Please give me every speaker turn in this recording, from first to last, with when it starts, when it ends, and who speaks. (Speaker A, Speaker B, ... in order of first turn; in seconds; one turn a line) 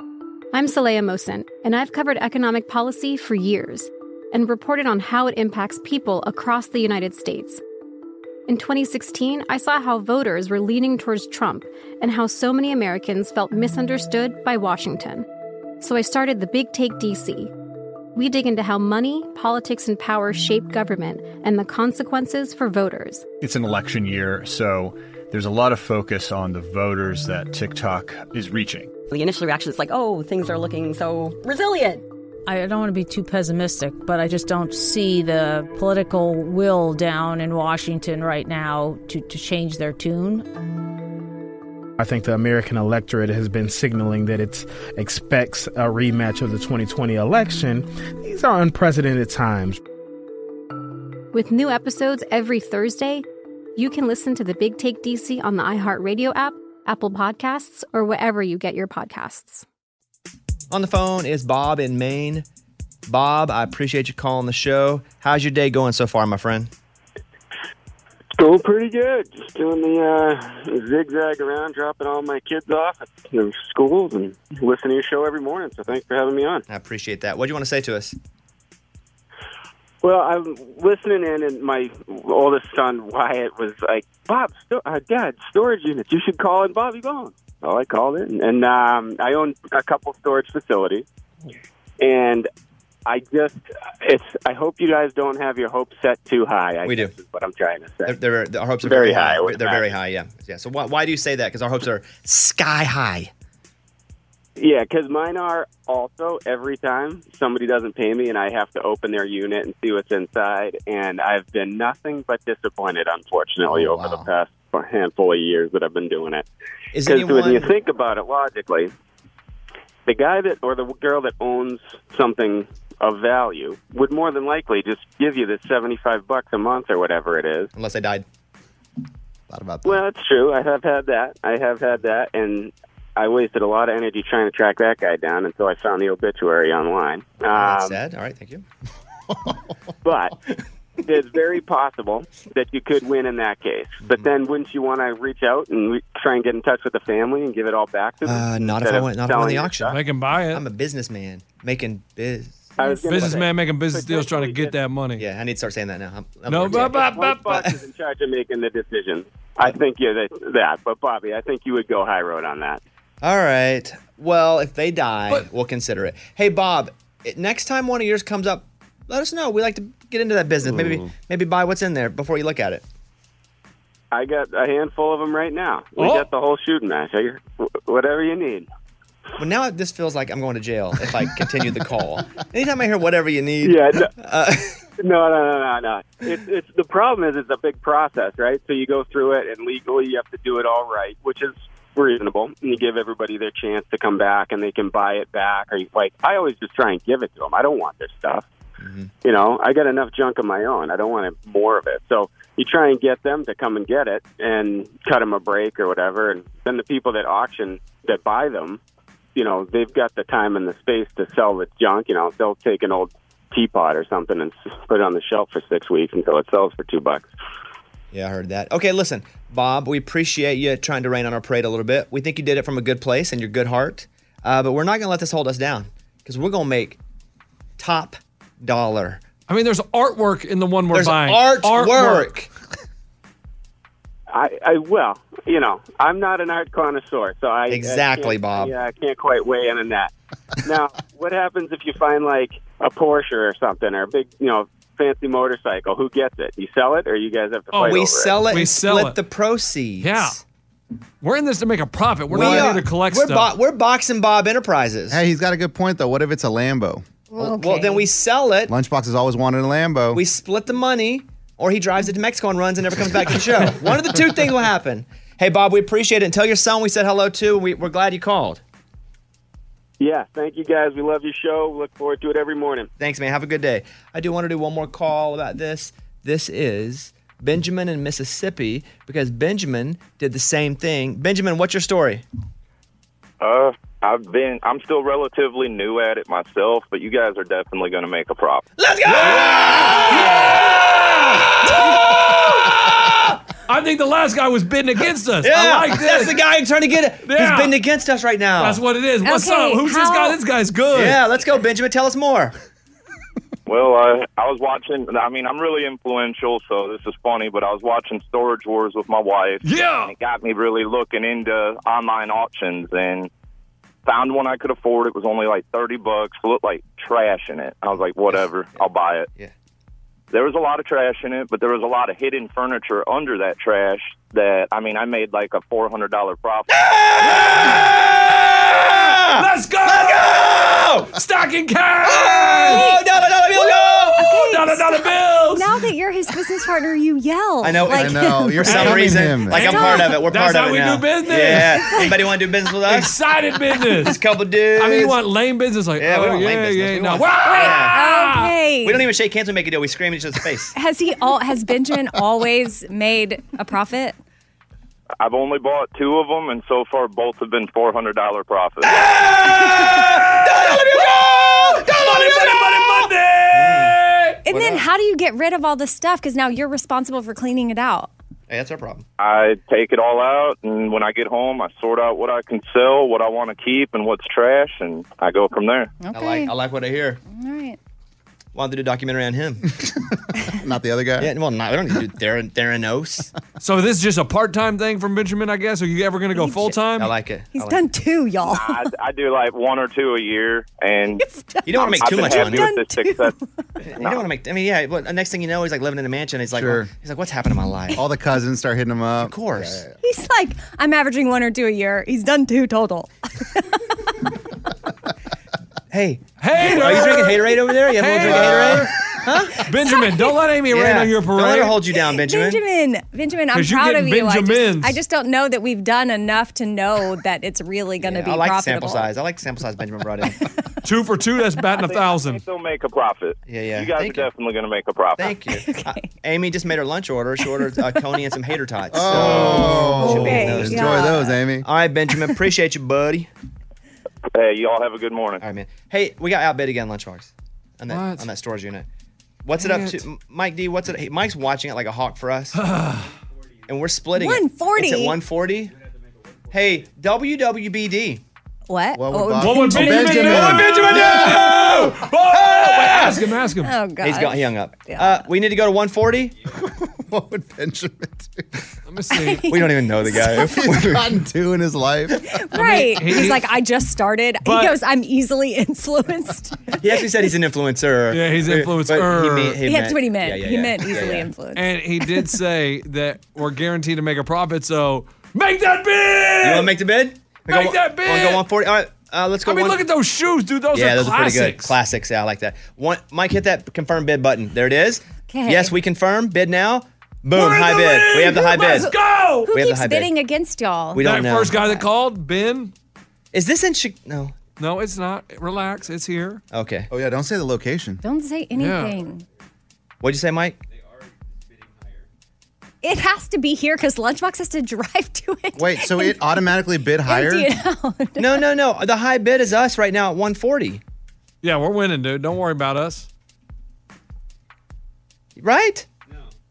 Speaker A: 0.5-7.6
Speaker A: 8.5-15.2
Speaker A: 15.8-17.5
Speaker A: 18.1-23.2
Speaker B: 23.4-28.9
Speaker C: 29.1-32.0
Speaker D: 32.5-40.5
Speaker E: 42.0-49.8
Speaker A: 51.3-53.2
Speaker A: 53.8-59.6
Speaker F: 60.7-62.4
Speaker F: 63.1-66.7
Speaker G: 68.4-76.6
Speaker F: 76.7-78.2
Speaker G: 80.0-91.0
Speaker G: 92.0-92.5
Speaker G: 93.0-98.2
Speaker F: 96.8-97.1
Speaker F: 98.0-103.3
Speaker G: 98.8-100.0
Speaker G: 104.6-116.5
Speaker H: 113.7-114.3
Speaker F: 116.9-117.7
Speaker G: 117.0-118.9
Speaker G: 120.0-127.7
Speaker F: 127.7-128.2
Speaker H: 129.5-130.0
Speaker G: 129.8-138.0
Speaker F: 137.5-138.6
Speaker G: 140.0-140.3
Speaker G: 141.0-149.9
Speaker F: 148.2-150.0
Speaker I: 149.9-150.6
Speaker F: 150.5-153.4
Speaker G: 152.8-154.7
Speaker I: 152.8-155.2
Speaker F: 155.2-157.7
Speaker I: 156.5-157.6
Speaker G: 156.7-162.8
Speaker F: 163.2-172.8
Speaker G: 174.1-178.7
Speaker I: 176.0-176.3
Speaker F: 179.4-184.8
Speaker G: 183.6-184.1
Speaker G: 185.0-198.4
Speaker F: 198.8-199.1
Speaker G: 199.2-208.8
Speaker G: 209.3-217.3
Speaker F: 218.1-227.0
Speaker F: 227.8-229.2
Speaker I: 229.5-232.3
Speaker F: 230.9-232.5
Speaker G: 234.3-240.1
Speaker F: 237.7-238.7
Speaker G: 240.6-248.4
Speaker I: 247.7-249.2
Speaker F: 247.8-250.4
Speaker I: 250.0-250.4
Speaker I: 251.2-253.5
Speaker F: 252.3-255.2
Speaker H: 252.3-252.7
Speaker H: 255.1-257.0
Speaker J: 257.3-258.1
Speaker F: 257.4-258.7
Speaker H: 258.7-260.2
Speaker F: 260.1-268.6
Speaker G: 270.0-272.9
Speaker F: 273.0-282.2
Speaker K: 283.4-288.6
Speaker F: 288.8-290.8
Speaker I: 289.1-293.0
Speaker F: 291.6-293.1
Speaker I: 293.7-296.4
Speaker F: 295.4-298.8
Speaker I: 297.2-297.7
Speaker I: 298.6-301.2
Speaker J: 299.2-300.4
Speaker F: 300.9-302.5
Speaker K: 303.7-313.3
Speaker I: 309.6-310.1
Speaker K: 314.0-319.3
Speaker K: 320.3-326.7
Speaker F: 326.7-331.1
Speaker I: 327.2-332.9
Speaker F: 332.0-334.3
Speaker J: 332.7-340.2
Speaker I: 334.1-335.7
Speaker F: 337.6-343.1
Speaker H: 337.9-339.8
Speaker I: 339.5-342.2
Speaker J: 341.4-342.2
Speaker I: 342.8-344.2
Speaker F: 344.0-345.2
Speaker I: 344.8-348.5
Speaker F: 346.0-348.1
Speaker J: 347.4-349.1
Speaker F: 348.8-350.7
Speaker J: 350.7-354.2
Speaker K: 355.2-359.0
Speaker F: 358.8-362.8
Speaker I: 359.0-364.4
Speaker F: 363.5-363.9
Speaker J: 364.4-368.1
Speaker F: 364.5-364.9
Speaker F: 368.5-369.0
Speaker K: 369.2-375.9
Speaker J: 376.0-376.5
Speaker F: 376.1-377.2
Speaker J: 377.2-377.8
Speaker F: 378.5-379.6
Speaker H: 379.8-381.3
Speaker F: 381.2-383.3
Speaker I: 383.6-387.1
Speaker J: 386.3-386.8
Speaker F: 386.9-387.8
Speaker J: 387.5-388.9
Speaker K: 388.5-391.2
Speaker J: 391.2-393.6
Speaker F: 391.6-392.8
Speaker K: 391.9-393.4
Speaker F: 393.8-398.0
Speaker K: 394.0-394.2
Speaker H: 396.5-396.9
Speaker H: 397.9-399.9
Speaker F: 399.2-399.8
Speaker J: 400.0-403.8
Speaker F: 405.9-409.7
Speaker I: 406.4-408.9
Speaker I: 409.5-411.8
Speaker J: 409.8-410.4
Speaker F: 410.7-412.6
Speaker J: 412.1-419.1
Speaker I: 413.5-415.0
Speaker F: 418.0-420.4
Speaker I: 420.8-422.4
Speaker K: 421.9-425.3
Speaker F: 423.5-424.3
Speaker F: 425.2-433.3
Speaker J: 425.5-426.1
Speaker J: 427.4-428.0
Speaker H: 428.9-431.6
Speaker I: 429.1-430.0
Speaker J: 430.0-431.4
Speaker K: 434.3-435.4
Speaker F: 435.4-438.9
Speaker I: 437.9-438.3
Speaker F: 439.4-442.6
Speaker I: 439.6-440.0
Speaker I: 442.5-443.1
Speaker F: 443.7-445.7
Speaker J: 444.1-445.2
Speaker F: 446.5-448.2
Speaker J: 448.7-450.9
Speaker H: 448.9-451.5
Speaker I: 449.4-453.7
Speaker F: 450.6-453.2
Speaker J: 453.6-455.3
Speaker F: 454.0-456.3
Speaker H: 456.6-458.5
Speaker I: 458.9-459.5
Speaker J: 459.1-460.5
Speaker F: 459.5-461.1
Speaker H: 460.2-462.3
Speaker J: 462.2-467.0
Speaker I: 462.5-463.4
Speaker I: 464.4-464.7
Speaker F: 466.8-471.3
Speaker I: 468.1-469.6
Speaker J: 469.6-472.3
Speaker I: 471.5-476.7
Speaker F: 476.4-479.8
Speaker I: 477.5-478.4
Speaker I: 479.4-481.8
Speaker F: 480.7-488.9
Speaker J: 485.3-485.7
Speaker I: 487.3-489.5
Speaker J: 487.5-488.9
Speaker J: 489.5-491.8
Speaker F: 489.5-490.1
Speaker F: 490.9-491.6
Speaker I: 491.0-492.7
Speaker F: 493.3-494.4
Speaker I: 494.6-496.4
Speaker F: 496.5-496.9
Speaker H: 496.9-498.0
Speaker J: 498.0-499.2
Speaker I: 498.6-499.0
Speaker F: 500.0-500.6
Speaker J: 502.8-506.4
Speaker H: 505.6-507.5
Speaker J: 507.0-508.4
Speaker F: 508.2-510.8
Speaker I: 511.4-513.1
Speaker F: 515.4-515.9